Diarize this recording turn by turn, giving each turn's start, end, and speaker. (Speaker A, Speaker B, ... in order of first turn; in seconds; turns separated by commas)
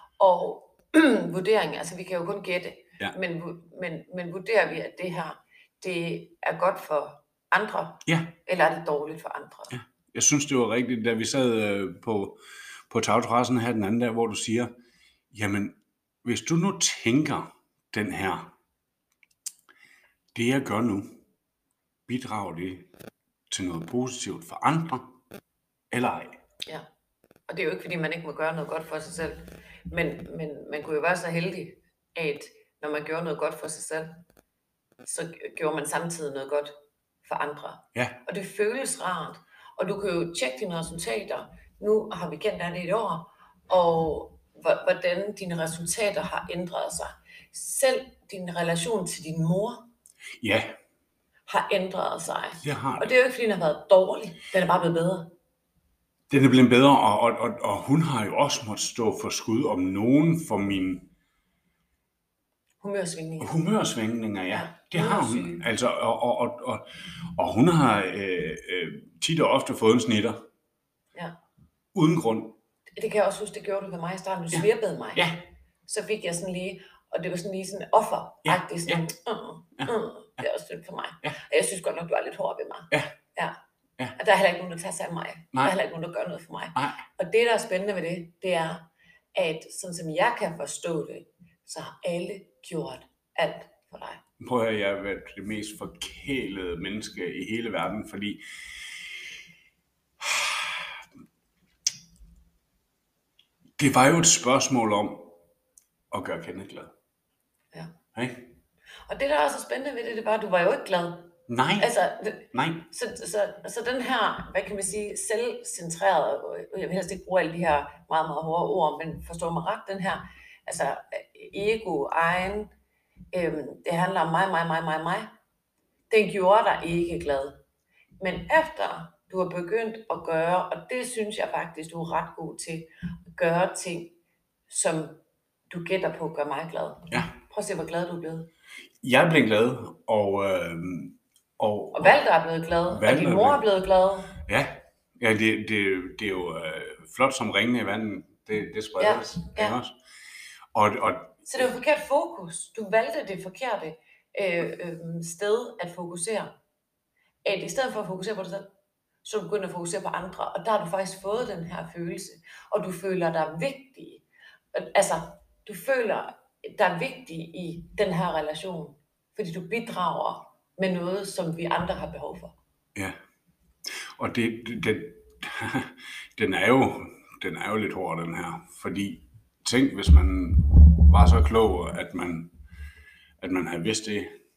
Speaker A: 0.2-9.8, Speaker B: 8.1-8.3, Speaker B: 9.7-14.7, Speaker B: 15.3-18.5, Speaker B: 20.3-21.2, Speaker B: 22.1-22.9, Speaker B: 23.5-25.1, Speaker B: 25.9-26.4, Speaker A: 27.5-34.2, Speaker A: 35.0-49.9, Speaker B: 50.4-50.8, Speaker A: 51.5-55.3, Speaker B: 52.6-53.1, Speaker B: 56.3-61.1, Speaker A: 62.8-63.6, Speaker B: 63.4-70.4, Speaker A: 64.5-65.6, Speaker B: 71.9-72.6, Speaker A: 73.0-75.3, Speaker B: 74.5-75.4, Speaker A: 75.9-83.6, Speaker B: 78.5-79.0, Speaker B: 79.8-80.4, Speaker A: 84.2-94.2, Speaker B: 94.4-98.4, Speaker B: 100.2-101.0, Speaker B: 103.8-105.4, Speaker B: 106.1-106.9, Speaker B: 108.1-108.5, Speaker A: 109.1-122.7, Speaker B: 111.5-111.9, Speaker B: 112.5-112.9, Speaker A: 123.3-125.3, Speaker A: 126.1-127.6, Speaker A: 128.2-134.2, Speaker A: 134.7-138.5, Speaker B: 139.0-142.2, Speaker A: 141.9-144.4, Speaker B: 142.9-143.6, Speaker B: 144.3-150.0, Speaker A: 149.0-149.8, Speaker B: 150.7-151.7, Speaker A: 151.5-156.5, Speaker A: 157.4-158.7, Speaker A: 159.2-172.5, Speaker B: 173.9-182.5, Speaker B: 183.4-184.4